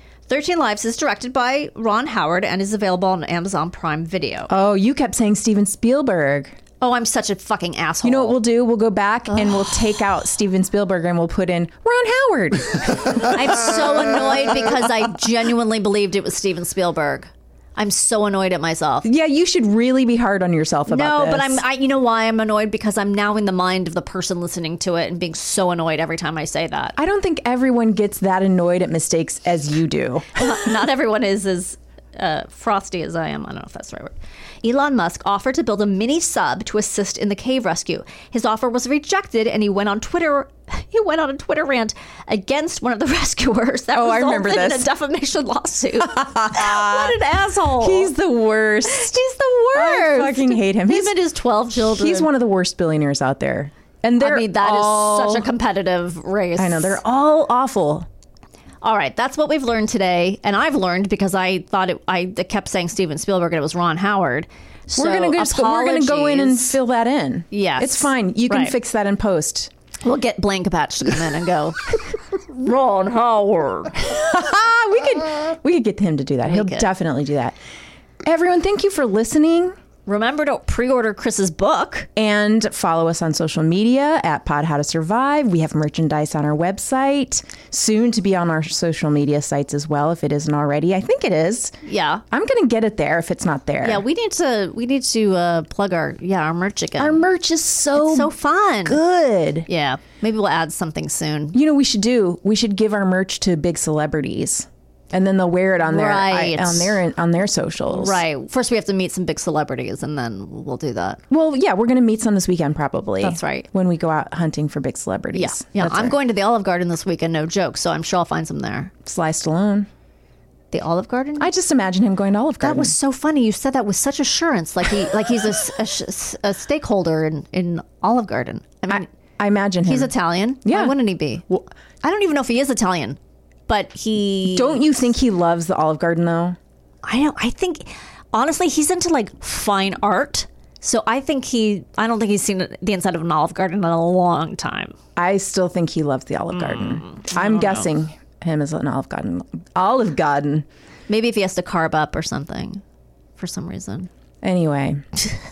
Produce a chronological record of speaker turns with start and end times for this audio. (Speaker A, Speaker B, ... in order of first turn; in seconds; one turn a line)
Speaker A: 0.3-4.5
Speaker B: 4.5-6.6
Speaker A: 6.8-8.4
Speaker B: 8.0-14.7
Speaker A: 9.3-9.7
Speaker A: 13.2-19.1
Speaker B: 19.0-21.6
Speaker A: 20.9-27.0
Speaker B: 27.0-30.7
Speaker A: 30.4-48.1
Speaker B: 43.9-44.9
Speaker B: 46.2-47.1
Speaker B: 47.8-49.1
Speaker A: 48.9-52.3
Speaker B: 49.7-51.2
Speaker B: 51.7-55.5
Speaker A: 54.2-57.0
Speaker B: 56.6-58.1
Speaker A: 58.8-66.8
Speaker B: 65.0-69.7
Speaker A: 67.5-68.8
Speaker A: 70.0-74.0
Speaker B: 74.0-77.6
Speaker A: 76.5-76.9
Speaker B: 78.2-79.8
Speaker A: 80.1-82.1
Speaker B: 82.2-91.8
Speaker A: 91.8-92.2
Speaker B: 92.3-94.0
Speaker A: 93.8-97.3
Speaker B: 97.0-98.3
Speaker A: 98.0-99.0
Speaker B: 98.8-99.7
Speaker A: 99.7-101.6
Speaker B: 101.5-108.2
Speaker A: 105.8-107.0
Speaker A: 107.9-111.2
Speaker B: 111.3-116.2
Speaker A: 113.2-113.7
Speaker A: 115.3-118.9
Speaker B: 119.0-119.9
Speaker A: 120.7-121.5
Speaker B: 121.4-123.0
Speaker A: 122.6-129.1
Speaker B: 128.9-131.0
Speaker A: 129.8-131.5
Speaker A: 132.0-134.8
Speaker B: 134.5-136.6
Speaker A: 137.0-144.9
Speaker B: 145.2-150.7
Speaker A: 146.5-147.9
Speaker A: 151.1-152.8
Speaker A: 153.4-154.1
Speaker B: 154.4-155.0